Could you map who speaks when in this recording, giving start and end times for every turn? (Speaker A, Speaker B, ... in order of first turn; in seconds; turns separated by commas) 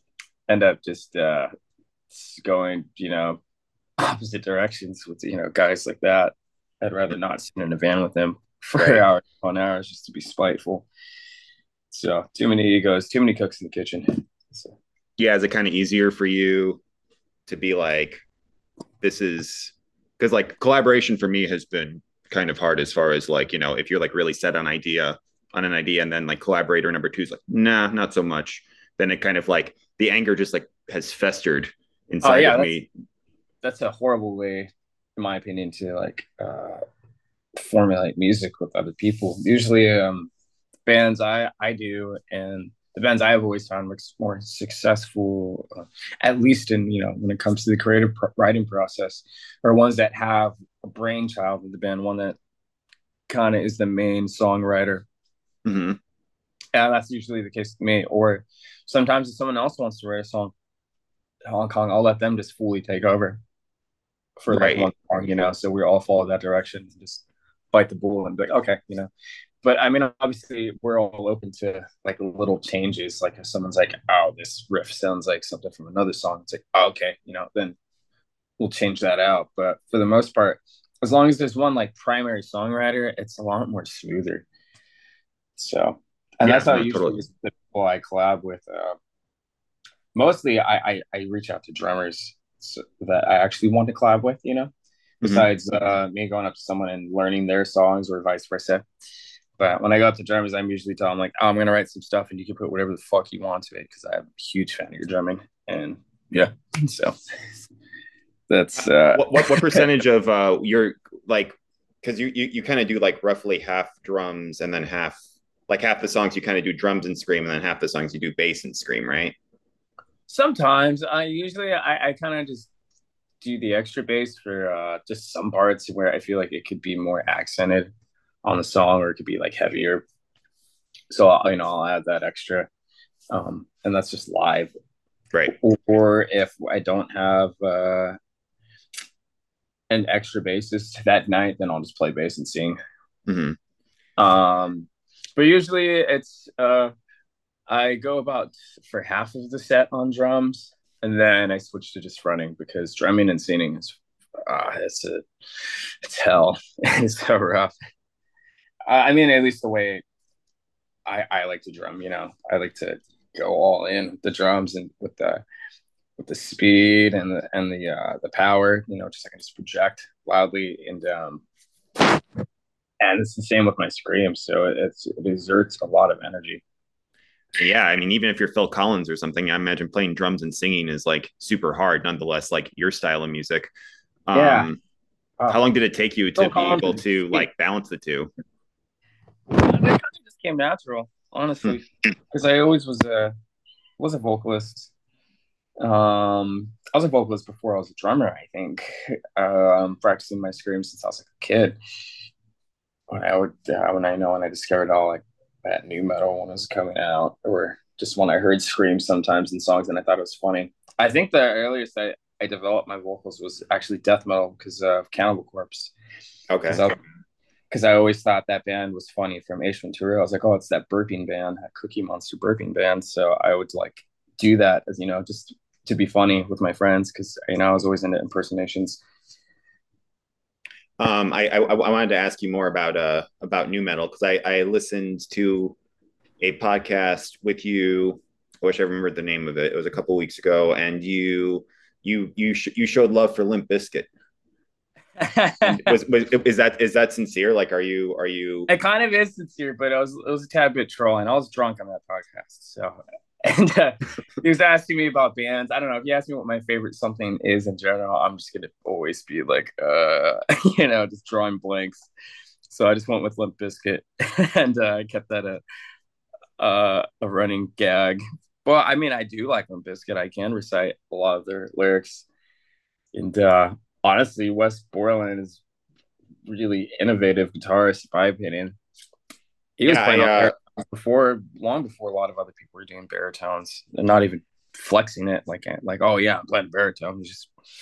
Speaker A: 0.5-1.5, Speaker A: 2.1-3.4, Speaker A: 4.0-10.9, Speaker B: 8.8-9.0, Speaker A: 11.9-14.8, Speaker B: 15.2-16.8, Speaker B: 17.5-18.2, Speaker B: 19.0-32.9, Speaker A: 32.2-32.7, Speaker A: 33.6-36.8, Speaker A: 37.6-40.3, Speaker A: 40.9-52.4, Speaker A: 53.3-55.1, Speaker B: 55.6-56.0, Speaker A: 56.7-60.5, Speaker A: 61.5-63.4, Speaker A: 64.4-69.1, Speaker B: 64.5-64.9, Speaker A: 69.6-77.8, Speaker A: 78.6-84.4, Speaker A: 85.6-89.0, Speaker B: 86.4-87.2, Speaker A: 90.1-94.7, Speaker A: 95.2-98.8, Speaker A: 99.6-107.1, Speaker A: 108.5-109.8, Speaker B: 109.1-115.2, Speaker B: 115.7-119.3, Speaker A: 120.3-122.7, Speaker A: 123.4-127.9, Speaker A: 128.4-130.0, Speaker A: 131.1-132.7, Speaker A: 133.3-134.7, Speaker A: 135.5-138.2, Speaker A: 139.9-142.8, Speaker B: 143.3-143.6, Speaker A: 144.2-146.9, Speaker A: 147.7-157.7, Speaker A: 158.9-160.0, Speaker A: 161.1-165.4, Speaker A: 166.2-171.4, Speaker A: 173.0-176.6, Speaker B: 177.5-183.7, Speaker B: 184.3-184.8, Speaker A: 184.3-184.7, Speaker B: 185.5-188.3, Speaker A: 186.4-187.4, Speaker A: 189.5-193.3, Speaker A: 194.0-194.9, Speaker A: 195.8-201.8, Speaker A: 203.1-215.9, Speaker B: 216.5-216.8, Speaker A: 216.7-216.9, Speaker A: 217.7-229.0, Speaker B: 231.0-235.8, Speaker B: 236.4-244.1, Speaker A: 245.2-245.9, Speaker B: 245.6-248.7, Speaker A: 248.7-262.1, Speaker A: 262.7-265.6, Speaker A: 266.6-272.3, Speaker A: 273.1-275.6, Speaker A: 276.5-278.8, Speaker A: 279.8-287.5, Speaker B: 279.9-280.5